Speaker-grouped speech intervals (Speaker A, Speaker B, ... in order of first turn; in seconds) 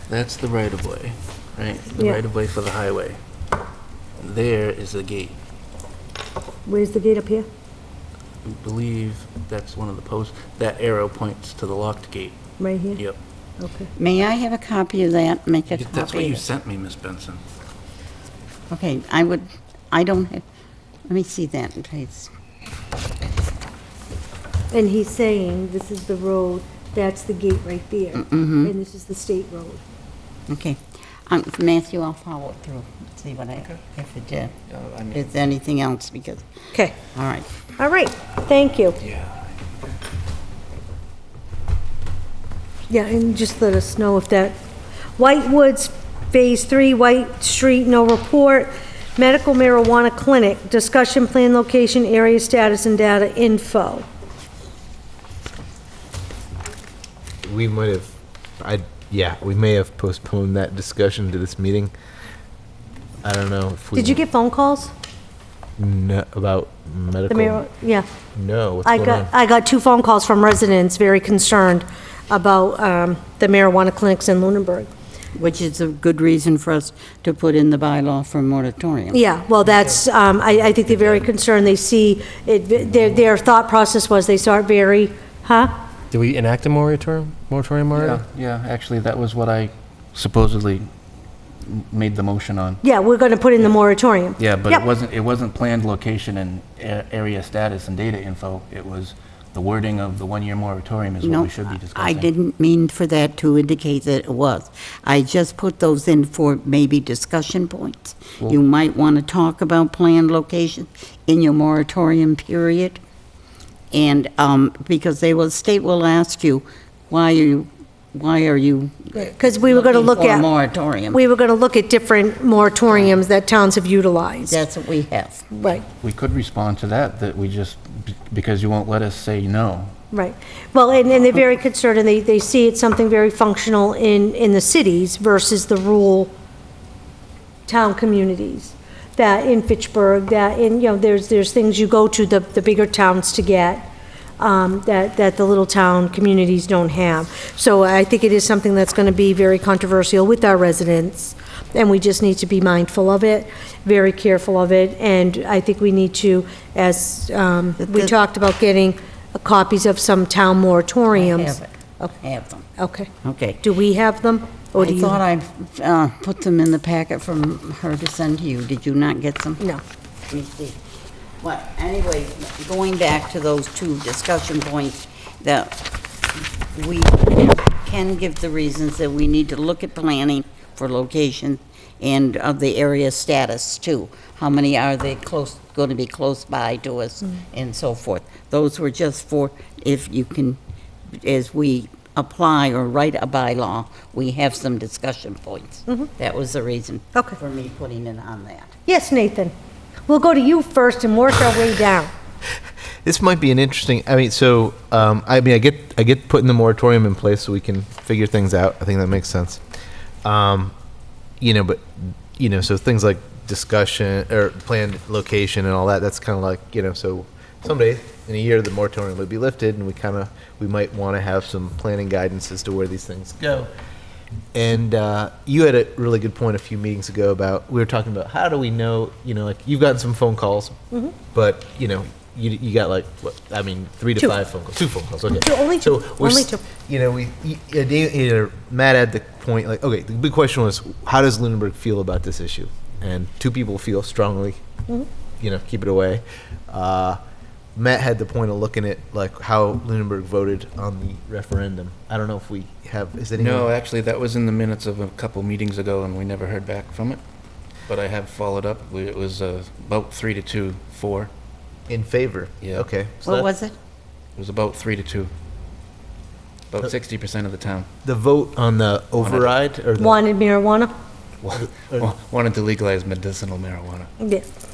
Speaker A: 0.1-3.2, 4.2-5.3, 8.4-12.4, 15.7-17.4, 34.7-35.3, 39.0-39.5, 87.9-90.9, 91.6-92.8, 94.4-102.3, 126.0-129.9, 253.4-257.2, 257.9-261.3, 264.4-265.3, 266.7-267.9, 269.2-269.5, 271.4-274.1
Speaker B: 1.9-2.2, 6.7-7.5, 12.6-13.0, 13.6-13.9, 24.7-29.8, 36.7-37.0, 37.8-39.0, 42.9-44.5, 45.2-54.0, 63.9-64.9, 67.3-68.1, 68.8-74.9, 79.1-85.7, 92.8-94.8, 119.1-120.5, 121.1-124.6, 125.5-125.8, 130.1-136.3, 137.7-162.2, 162.8-163.1, 163.6-165.2, 198.8-199.5, 200.1-202.1, 235.3-236.6, 270.0-270.9, 274.2-274.4
Speaker C: 13.9-16.5, 18.7-20.4, 21.1-22.3, 28.1-28.7, 30.5-34.5, 35.1-36.4, 37.1-37.5, 75.3-79.2, 101.2-113.0, 113.9-121.2, 124.5-125.5, 157.8-158.1, 161.1-162.7, 163.2-163.6, 164.8-169.6, 170.3-170.8, 171.4-175.8, 176.4-190.6, 191.1-198.8, 263.2-263.8
Speaker D: 57.4-61.9, 63.2-64.2, 65.8-67.6, 68.3-69.3, 203.0-209.6, 210.2-210.7, 211.4-223.7, 224.5-230.8, 231.3-244.6, 245.4-247.2, 247.7-253.7, 261.9-263.4, 268.0-270.2, 271.8-272.1
Speaker E: 86.1-88.2